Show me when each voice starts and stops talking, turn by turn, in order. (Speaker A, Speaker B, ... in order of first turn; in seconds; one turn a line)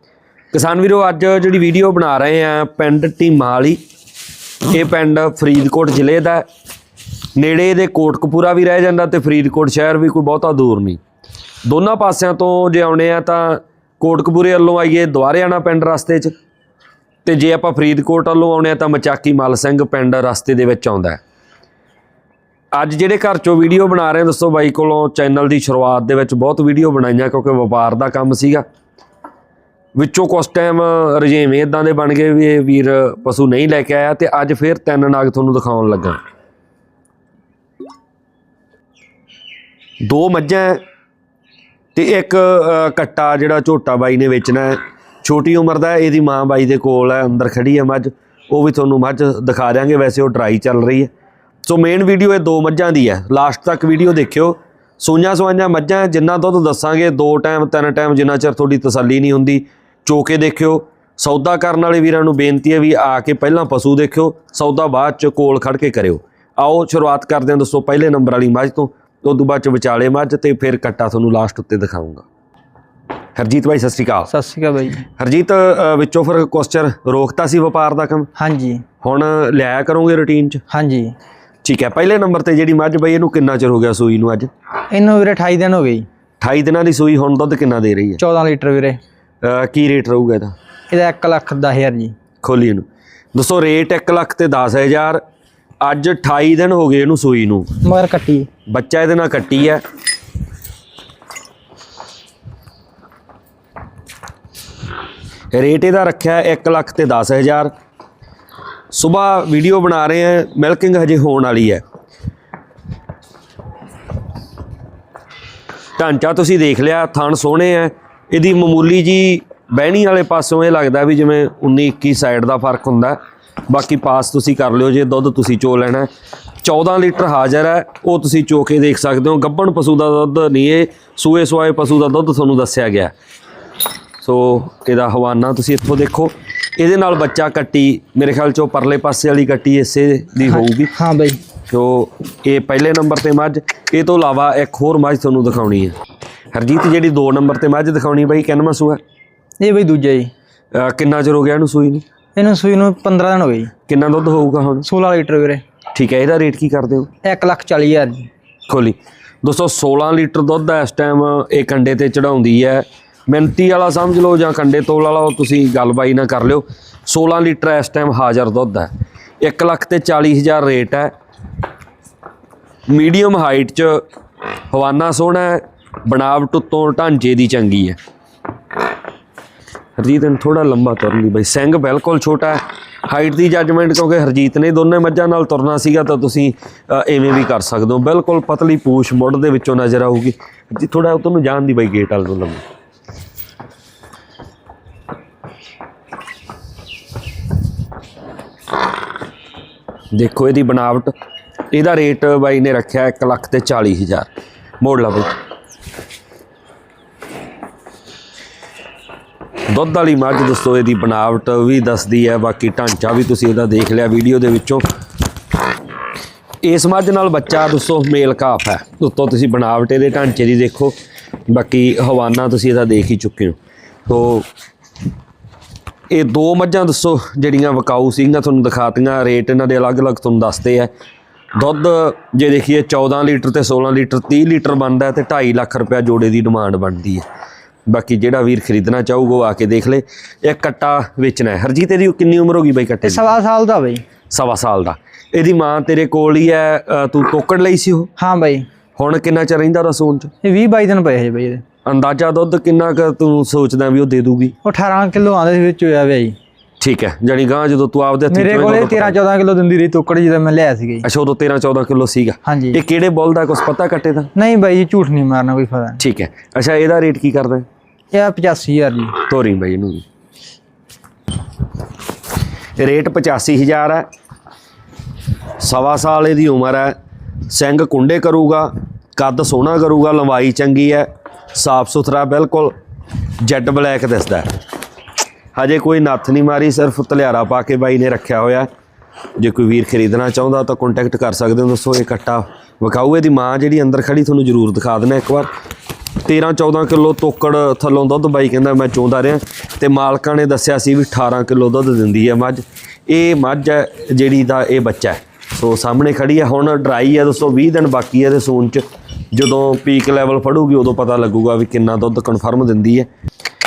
Speaker A: 0.5-3.8
Speaker A: 4.6-6.4
Speaker A: 7.3-11.0
Speaker A: 11.6-16.3
Speaker A: 17.2-21.2
Speaker A: 22.7-28.6
Speaker A: 29.9-36.2
Speaker A: 40.0-40.8
Speaker A: 41.9-51.1
Speaker A: 51.6-72.2
Speaker A: 73.3-74.3
Speaker B: 74.3-75.0
Speaker A: 75.2-78.3
Speaker B: 78.3-78.8
Speaker A: 79.0-80.6
Speaker B: 80.7-81.1
Speaker A: 81.6-84.5
Speaker B: 84.9-86.1
Speaker A: 86.4-88.2
Speaker B: 88.2-89.0
Speaker A: 89.4-90.5
Speaker B: 90.9-92.1
Speaker A: 92.4-95.2
Speaker A: 95.8-97.8
Speaker B: 97.8-98.5
Speaker A: 98.7-99.8
Speaker A: 105.5-107.7
Speaker A: 108.9-111.8
Speaker A: 116.0-126.1
Speaker A: 126.6-133.1
Speaker A: 134.2-140.9
Speaker B: 140.5-141.4
Speaker A: 141.7-145.9
Speaker A: 146.5-149.0
Speaker B: 149.6-150.3
Speaker A: 150.7-152.0
Speaker B: 152.3-153.7
Speaker A: 153.9-154.9
Speaker B: 154.8-155.6
Speaker A: 155.9-157.1
Speaker B: 157.2-158.3
Speaker A: 158.7-168.9
Speaker A: 169.4-171.1
Speaker A: 172.9-174.0
Speaker A: 174.7-178.0
Speaker A: 180.0-192.6
Speaker A: 200.1-201.1
Speaker A: 201.7-204.3
Speaker A: 204.8-205.3
Speaker A: 209.7-214.8
Speaker A: 216.6-220.9
Speaker A: 221.5-224.4
Speaker A: 226.1-230.9
Speaker A: 231.6-237.2
Speaker A: 237.9-243.2
Speaker B: 243.0-244.0
Speaker A: 244.3-248.1
Speaker B: 248.2-248.7
Speaker A: 248.9-250.3
Speaker B: 250.4-251.6
Speaker A: 251.8-254.5
Speaker B: 254.6-256.4
Speaker A: 256.8-259.2
Speaker B: 258.3-261.1
Speaker A: 261.0-264.3
Speaker B: 262.4-262.8
Speaker B: 264.4-266.0
Speaker A: 266.0-267.7
Speaker B: 268.1-269.2
Speaker A: 269.2-270.0
Speaker A: 272.8-274.1
Speaker A: 275.6-276.9
Speaker A: 277.5-282.7
Speaker A: 283.4-284.5
Speaker A: 285.5-288.7
Speaker A: 289.4-295.5
Speaker A: 296.2-313.1